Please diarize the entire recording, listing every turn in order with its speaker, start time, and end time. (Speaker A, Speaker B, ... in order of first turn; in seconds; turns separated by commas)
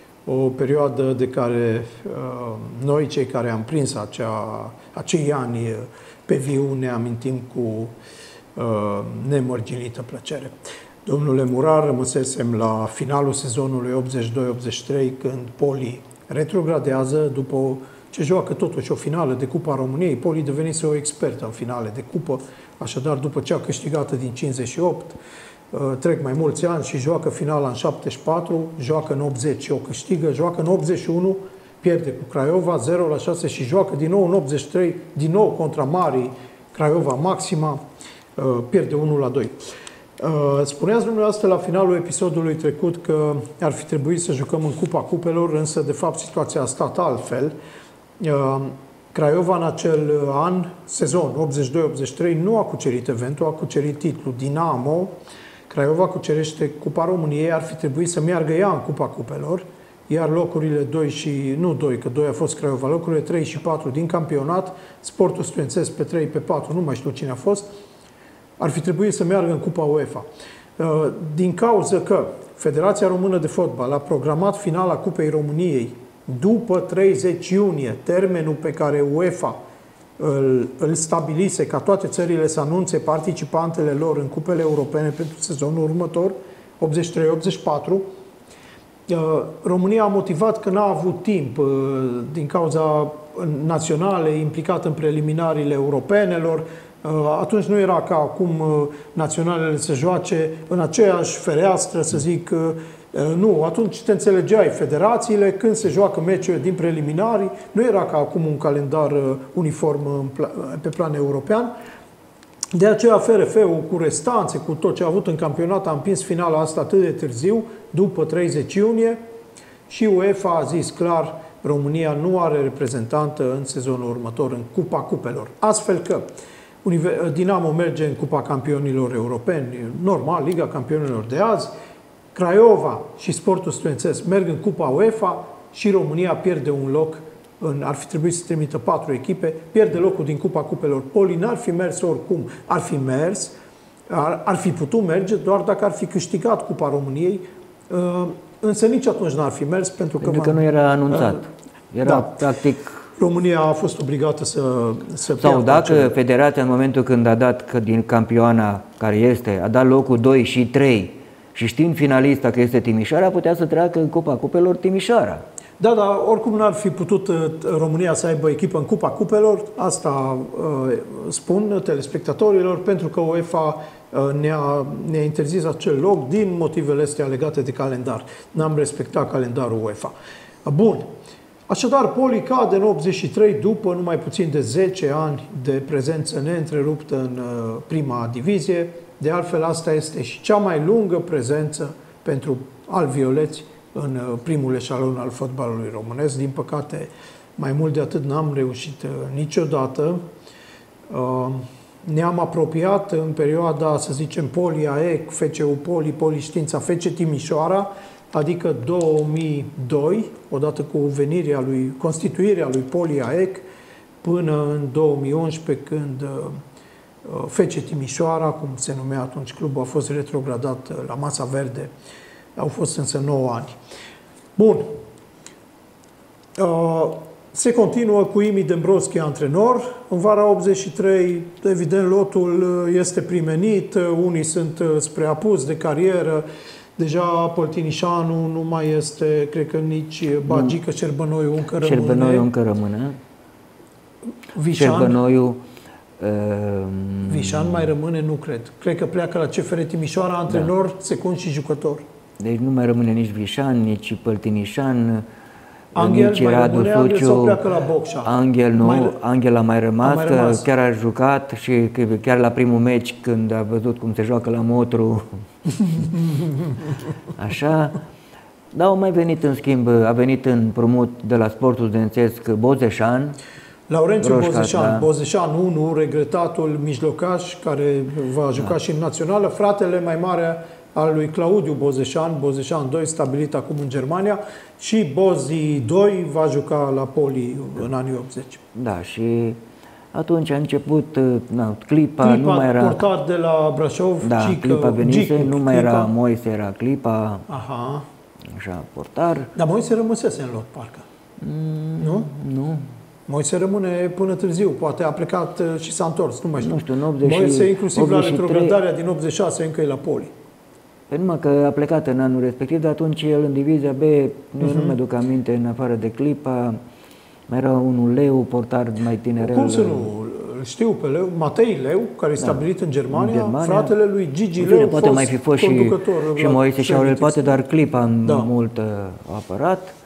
Speaker A: 0.2-7.9, Speaker A: 8.6-25.2, Speaker A: 25.7-37.8, Speaker A: 38.4-39.6, Speaker A: 40.2-47.5, Speaker A: 48.2-55.1, Speaker A: 55.7-67.7, Speaker A: 68.6-70.2, Speaker A: 70.8-79.6, Speaker A: 80.2-88.1, Speaker A: 89.1-111.7, Speaker A: 112.7-119.2, Speaker A: 119.9-126.3, Speaker A: 126.8-131.7, Speaker A: 132.3-143.5, Speaker A: 144.1-151.4, Speaker B: 150.2-153.0, Speaker A: 152.0-152.4, Speaker A: 153.2-156.2, Speaker B: 155.4-165.4, Speaker A: 165.8-180.1, Speaker A: 180.6-181.1, Speaker A: 181.7-200.2, Speaker A: 201.1-213.6, Speaker A: 214.2-216.6, Speaker A: 217.2-221.9, Speaker A: 222.6-223.8, Speaker A: 224.6-224.9, Speaker A: 226.6-236.4, Speaker A: 237.0-242.5, Speaker B: 240.5-240.7, Speaker B: 241.8-243.2, Speaker A: 244.5-245.2, Speaker B: 244.8-245.6, Speaker B: 246.2-247.9, Speaker A: 247.2-252.0, Speaker B: 252.4-255.2, Speaker B: 255.9-257.6, Speaker A: 255.9-259.2, Speaker B: 258.2-265.2, Speaker A: 260.0-260.6, Speaker A: 266.1-266.4, Speaker B: 267.4-268.0, Speaker B: 268.7-273.4, Speaker A: 273.9-288.6, Speaker B: 274.2-275.1, Speaker B: 288.7-289.6, Speaker B: 290.1-293.1, Speaker A: 292.2-296.1, Speaker B: 294.2-297.4, Speaker A: 297.5-298.1, Speaker B: 298.5-299.5, Speaker A: 299.5-301.1, Speaker B: 301.4-302.8, Speaker A: 302.0-302.3, Speaker A: 303.3-310.3, Speaker B: 306.6-308.8, Speaker B: 311.1-316.8, Speaker A: 314.6-315.0, Speaker B: 317.5-320.1, Speaker A: 319.4-327.6, Speaker B: 322.4-323.9, Speaker B: 324.6-329.9, Speaker A: 328.2-328.5